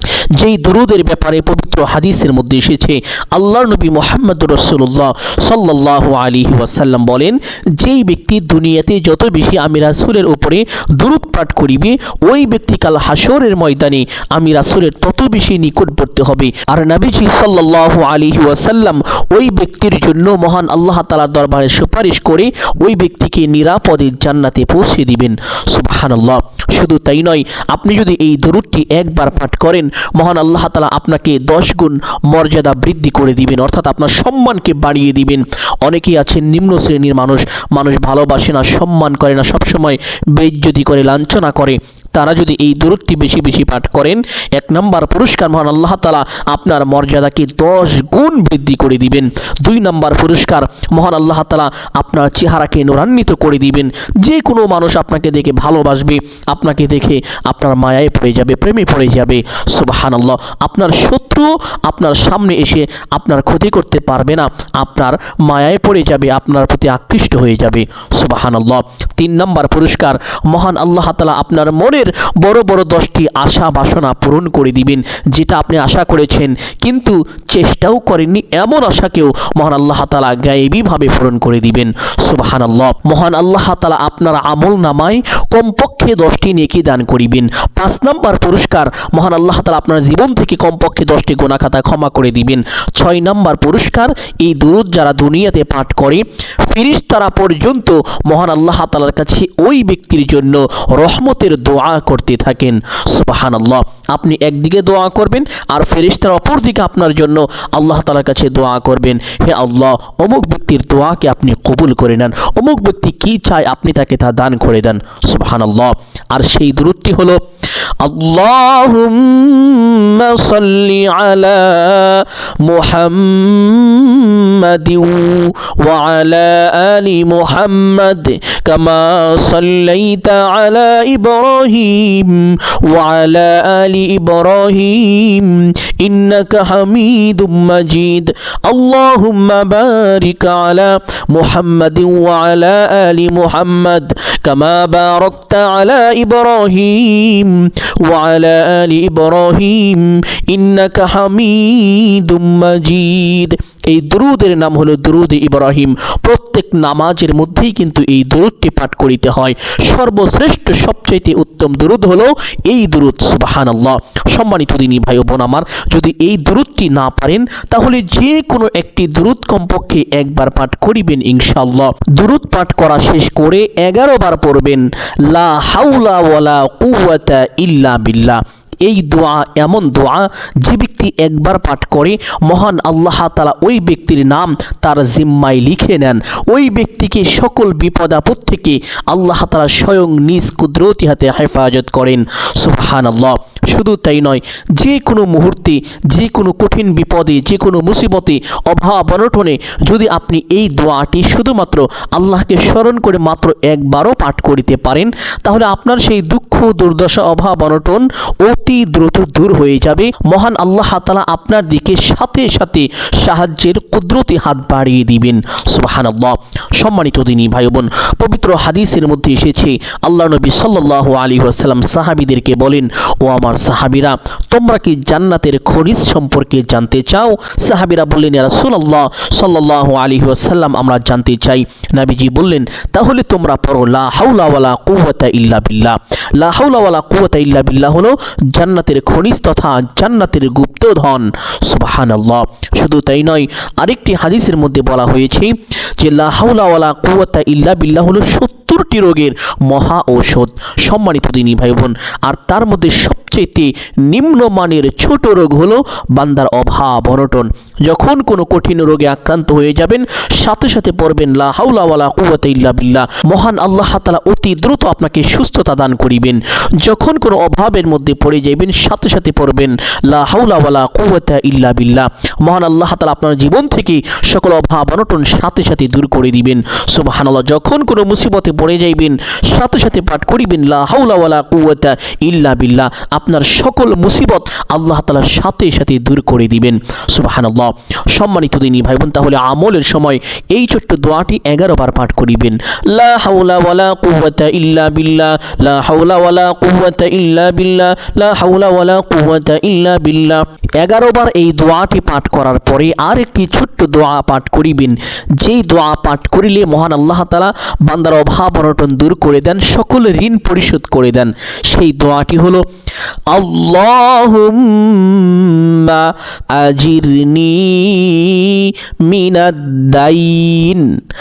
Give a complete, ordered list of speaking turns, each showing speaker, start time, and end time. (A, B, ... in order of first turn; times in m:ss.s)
0:00.4-1:57.4 A
1:58.0-5:12.6 A
5:13.3-5:21.0 A